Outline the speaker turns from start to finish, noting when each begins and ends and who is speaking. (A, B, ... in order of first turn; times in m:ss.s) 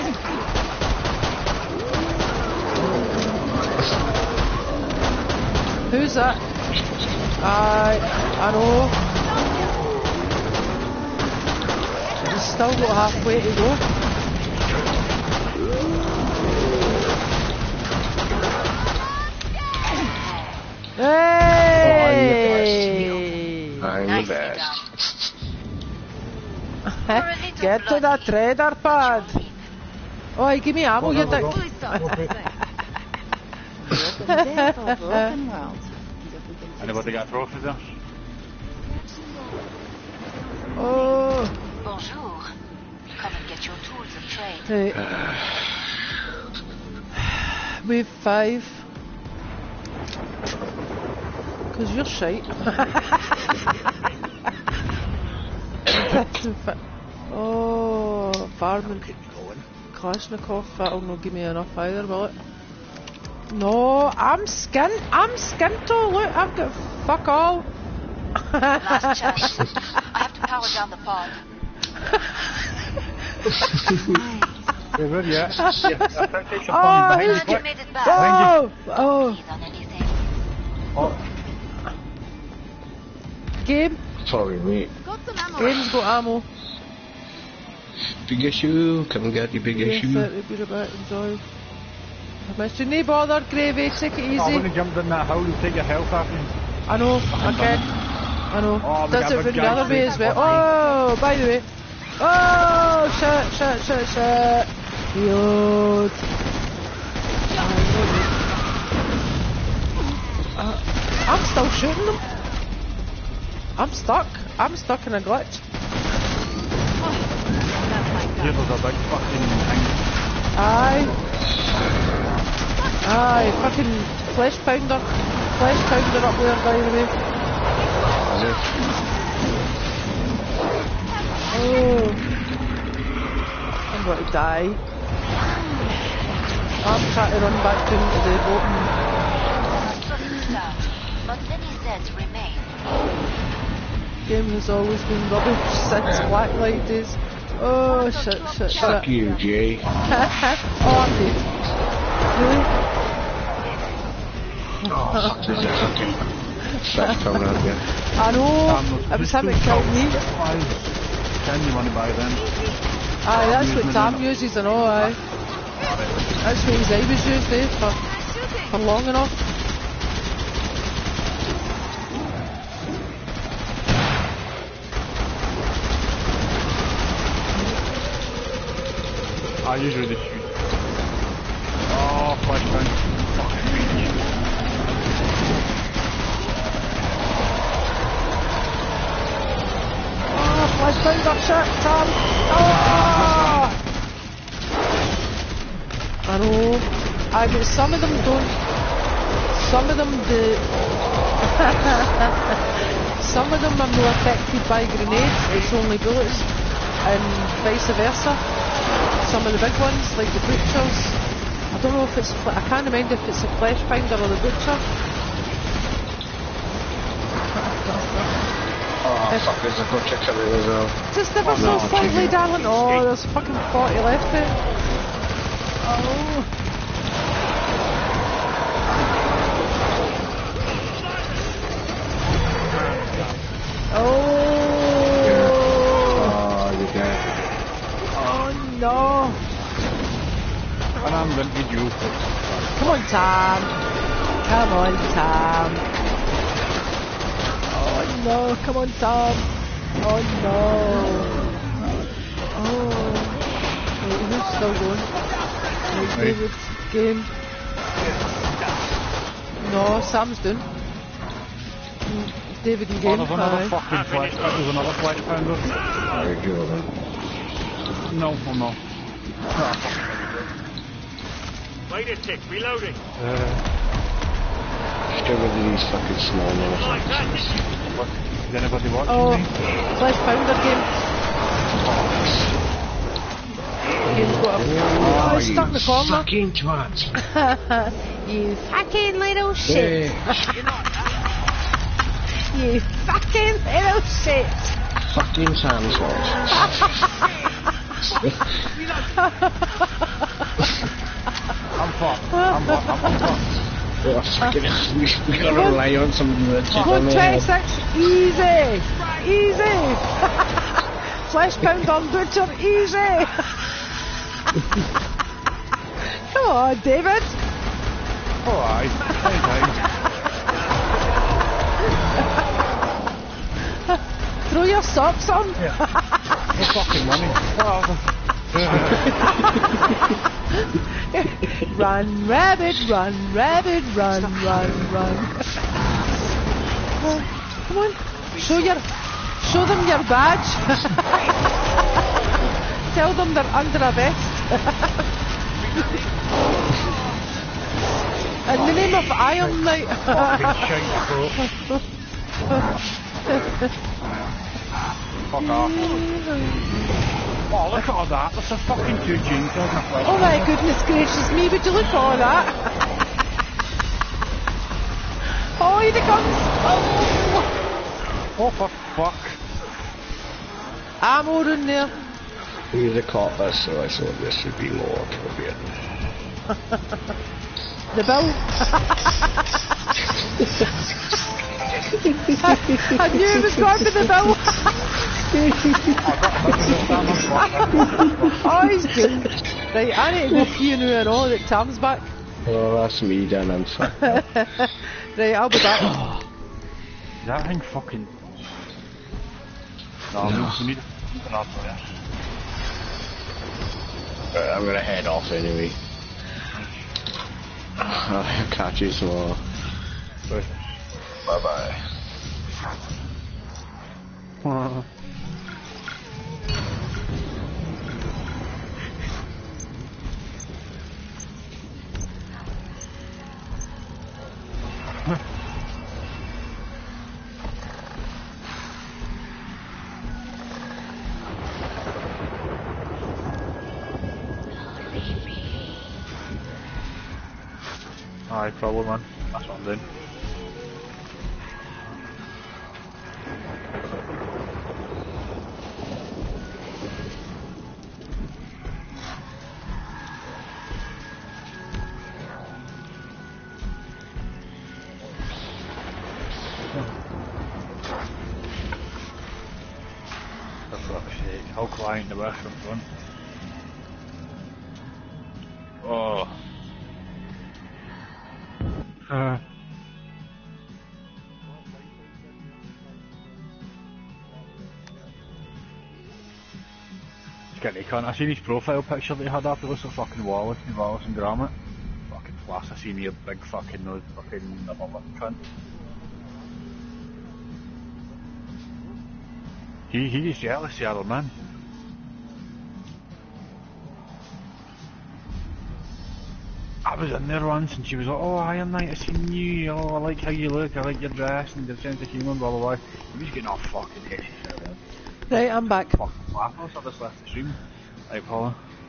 0:05.9-0:06.4 A
0:07.4-0:09.0 A
0:09.1-0:10.0 B
0:12.0-0:13.6 B
0:12.2-0:13.8 A
0:14.7-0:15.6 B
0:19.0-0:19.5 B
0:20.2-0:20.6 C
0:21.0-0:23.9 A
0:21.8-0:22.9 D
0:21.8-0:22.4 E
0:22.4-0:23.4 C
0:23.8-0:25.2 D
0:24.0-0:24.9 C
0:26.9-0:29.4 A
0:27.1-0:28.3 C
0:28.8-0:29.6 C
0:30.4-0:32.3 A
0:31.0-0:32.3 E
0:31.3-0:32.5 B
0:33.8-0:37.3 B
0:34.3-0:35.3 A
0:36.8-0:37.8 E
0:38.8-0:41.2 B
0:40.8-0:41.5 A
0:41.8-0:42.5 C
0:43.1-0:44.7 C
0:44.7-0:45.0 A
0:44.9-0:45.8 D
0:47.2-0:48.8 A
0:51.7-0:53.4 A
0:55.9-0:56.8 A
0:57.3-0:59.0 A
0:58.8-0:59.6 E
0:59.9-1:02.3 A
1:03.5-1:07.7 A
1:08.4-1:09.7 A
1:08.8-1:11.4 C
1:13.7-1:14.2 D
1:13.9-1:14.8 B
1:15.0-1:18.6 E
1:15.6-1:19.4 A
1:17.1-1:20.2 C
1:20.9-1:21.2 E
1:23.6-1:24.0 A
1:24.2-1:24.9 D
1:25.0-1:26.0 B
1:25.6-1:26.4 A
1:28.2-1:30.3 D
1:29.7-1:31.4 A
1:32.5-1:34.7 A
1:34.3-1:36.5 E
1:36.9-1:37.8 A
1:37.3-1:37.9 E
1:38.5-1:41.7 A
1:38.8-1:40.7 E
1:39.6-1:41.3 B
1:42.2-1:46.2 A
1:47.5-1:47.9 B
1:47.6-1:48.3 A
1:50.6-1:52.2 A
1:53.8-1:55.6 A
1:57.0-1:58.7 B
1:58.3-2:00.1 E
2:00.5-2:01.2 A
2:02.8-2:03.7 B
2:03.0-2:07.1 A
2:08.1-2:08.8 D
2:08.4-2:09.1 B
2:10.9-2:12.2 B
2:11.5-2:12.2 A
2:13.9-2:14.8 A
2:15.5-2:15.9 B
2:16.8-2:18.9 A
2:19.6-2:22.7 C
2:24.3-2:29.1 A
2:27.8-2:29.5 B
2:28.7-2:29.9 D
2:30.0-2:31.5 A
2:32.3-2:32.7 A
2:34.9-2:36.2 D
2:35.0-2:35.3 A
2:35.1-2:36.0 E
2:36.7-2:37.3 A
2:36.8-2:37.8 D
2:38.1-2:40.2 A
2:38.6-2:40.9 E
2:41.4-2:42.4 E
2:42.4-2:43.0 B
2:43.2-2:45.2 A
2:43.3-2:45.2 E
2:45.8-2:46.2 E
2:46.4-2:48.0 A
2:48.0-2:48.9 B
2:48.7-2:49.5 A
2:59.6-3:00.5 E
3:01.9-3:04.2 E
3:10.3-3:13.8 A
3:16.2-3:18.6 A
3:19.5-3:20.7 A
3:21.4-3:26.5 A
3:27.0-3:28.4 A
3:29.2-3:31.2 A
3:31.7-3:34.8 A
3:37.8-3:38.2 A
3:39.0-3:41.0 D
3:41.1-3:44.6 A
3:41.4-3:42.4 E
3:41.5-3:42.3 D
3:45.8-3:46.5 A
3:52.7-3:53.4 E
3:53.9-3:56.3 A
3:55.2-3:57.4 D
3:58.1-3:59.4 A
4:01.0-4:03.0 E
4:02.8-4:03.7 A
4:04.4-4:05.8 A
4:07.7-4:11.4 A
4:12.5-4:13.4 A
4:14.0-4:15.1 A
4:15.9-4:17.3 A
4:16.1-4:16.4 E
4:19.6-4:20.6 A
4:22.1-4:23.8 A
4:23.0-4:25.9 E
4:26.0-4:26.9 D
4:28.1-4:28.8 E
4:29.5-4:30.5 E
4:33.1-4:33.6 E
4:35.0-4:37.6 D
4:37.9-4:39.5 E
4:39.0-4:40.9 A
4:41.9-4:42.3 E
4:44.0-4:47.1 D
4:44.1-4:46.3 A
4:47.2-4:50.5 A
4:49.6-4:50.6 D
4:52.5-4:54.7 A
4:55.1-4:56.8 D
4:56.6-4:56.9 A
4:58.0-4:58.6 D
4:59.0-5:00.7 A
5:01.7-5:03.5 E
5:02.3-5:03.3 A
5:04.0-5:07.5 D
5:05.4-5:05.8 A
5:06.7-5:07.4 E
5:06.7-5:13.5 A
5:16.1-5:17.4 A
5:18.4-5:19.9 E
5:23.7-5:26.2 A
5:26.5-5:29.4 E
5:30.6-5:35.5 A
5:37.0-5:38.8 A
5:39.4-5:41.2 A
5:42.9-5:45.0 A
5:48.4-5:50.7 A
5:49.4-5:51.4 E
5:51.4-5:51.8 A
5:53.3-5:53.7 A
5:55.3-5:56.0 E
5:55.4-5:56.7 A
5:57.5-6:00.5 E
6:00.0-6:02.7 A
6:05.2-6:07.5 A
6:08.4-6:09.4 E
6:11.0-6:11.9 A
6:12.7-6:15.6 D
6:16.5-6:16.8 A
6:17.9-6:19.3 A
6:22.0-6:24.1 D
6:22.4-6:24.6 A
6:25.3-6:26.0 D
6:26.0-6:28.6 E
6:27.3-6:32.1 A
6:32.4-6:34.2 D
6:33.9-6:36.0 A
6:35.7-6:36.2 D
6:37.2-6:38.2 E
6:40.1-6:41.8 E
6:40.2-6:40.6 D
6:44.3-6:45.8 D
6:47.8-6:49.4 D
6:50.3-6:50.6 E
6:51.2-6:51.8 D
6:54.4-6:54.8 E
7:18.3-7:19.8 E
7:40.7-7:42.9 E
7:45.8-7:46.3 E
7:49.1-7:49.4 E
7:57.5-8:01.5 E
8:02.1-8:05.4 E
8:09.9-8:11.3 E
8:16.8-8:24.8 E
8:25.3-8:26.0 A
8:25.3-8:27.6 E
8:28.1-8:28.6 E